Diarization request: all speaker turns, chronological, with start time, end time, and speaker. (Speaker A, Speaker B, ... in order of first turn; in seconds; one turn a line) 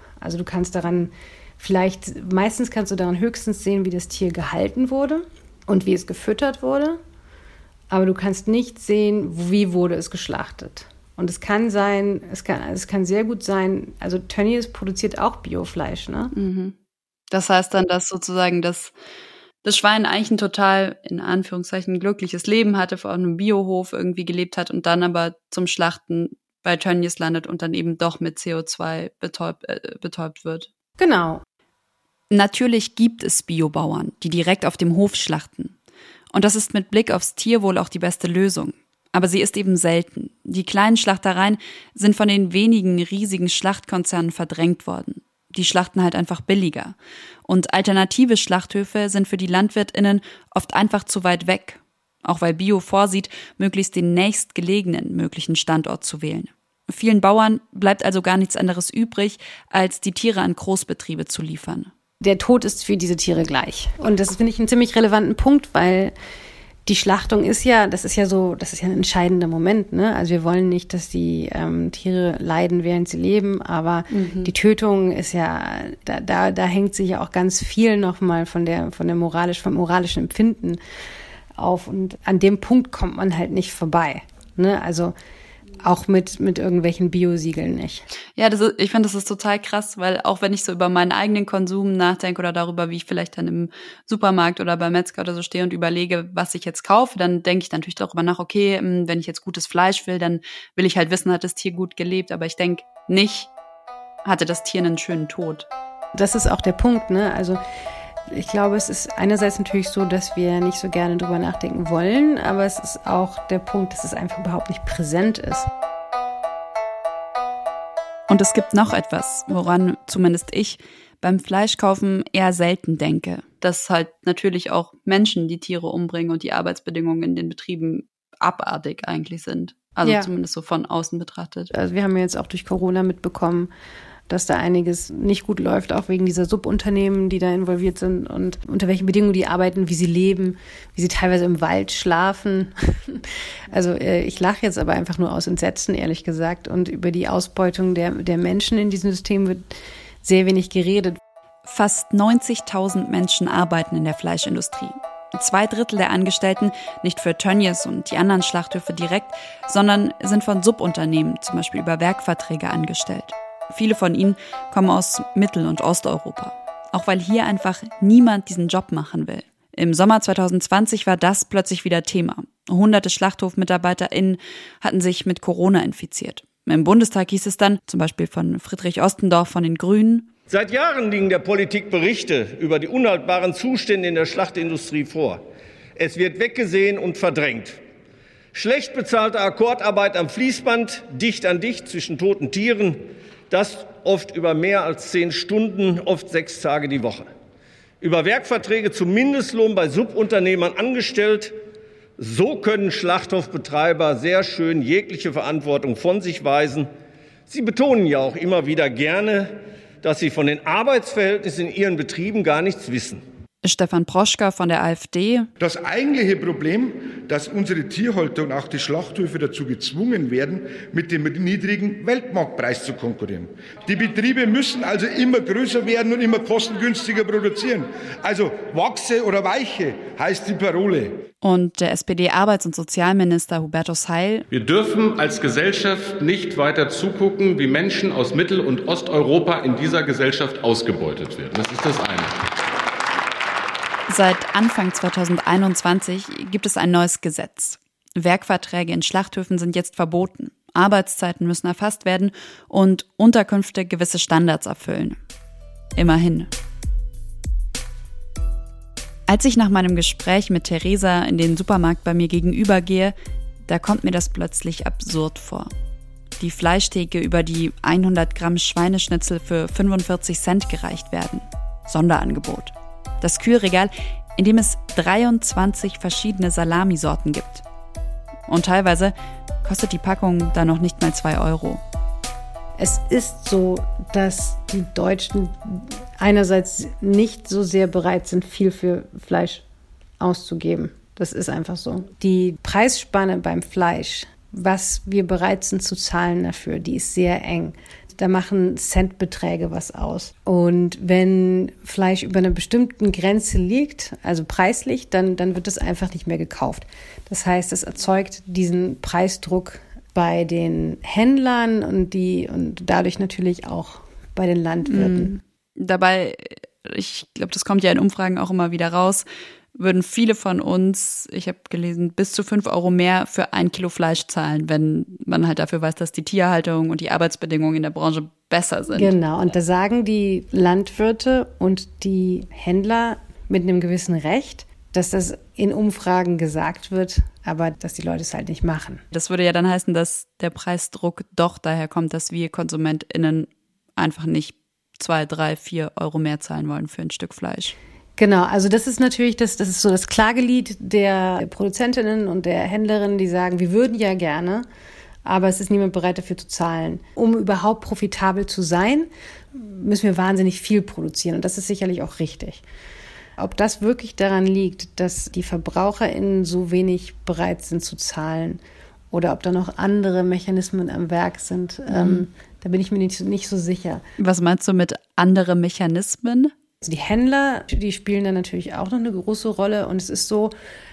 Speaker A: 0.2-7.0
Speaker A: 7.9-16.3
Speaker B: 16.3-16.8
Speaker B: 17.3-18.9
Speaker B: 19.6-30.7
Speaker A: 31.0-31.4
Speaker B: 32.3-35.8
Speaker B: 36.3-61.9
Speaker A: 62.2-66.1
Speaker A: 66.9-80.8
Speaker B: 74.1-74.5
Speaker A: 81.6-85.1
Speaker A: 85.8-88.1
Speaker B: 88.4-103.5
Speaker B: 104.2-105.7
Speaker A: 106.2-107.6
Speaker A: 108.3-115.7
Speaker B: 118.3-131.7
Speaker A: 130.0-130.3
Speaker A: 131.7-133.7
Speaker A: 134.3-149.7
Speaker A: 150.2-151.2
Speaker B: 151.7-180.3
Speaker C: 180.5-185.4
Speaker C: 186.0-187.8
Speaker C: 188.5-197.3
Speaker C: 198.0-201.5
Speaker C: 202.2-206.9
Speaker C: 207.5-213.2
Speaker B: 213.6-215.5
Speaker D: 215.6-231.2
Speaker B: 231.4-234.4
Speaker E: 234.5-242.3
Speaker B: 244.1-255.2
Speaker B: 256.0-256.5
Speaker B: 259.3-263.1
Speaker B: 263.7-265.7
Speaker B: 266.4-277.6
Speaker B: 278.5-281.8
Speaker A: 282.8-289.6
Speaker A: 290.2-315.3
Speaker B: 314.9-329.1
Speaker A: 328.9-339.0
Speaker B: 339.1-347.8
Speaker A: 348.2-354.7
Speaker A: 355.2-362.6
Speaker A: 363.4-368.6
Speaker A: 369.1-374.0
Speaker B: 371.9-372.2
Speaker B: 374.2-376.5
Speaker A: 376.8-380.5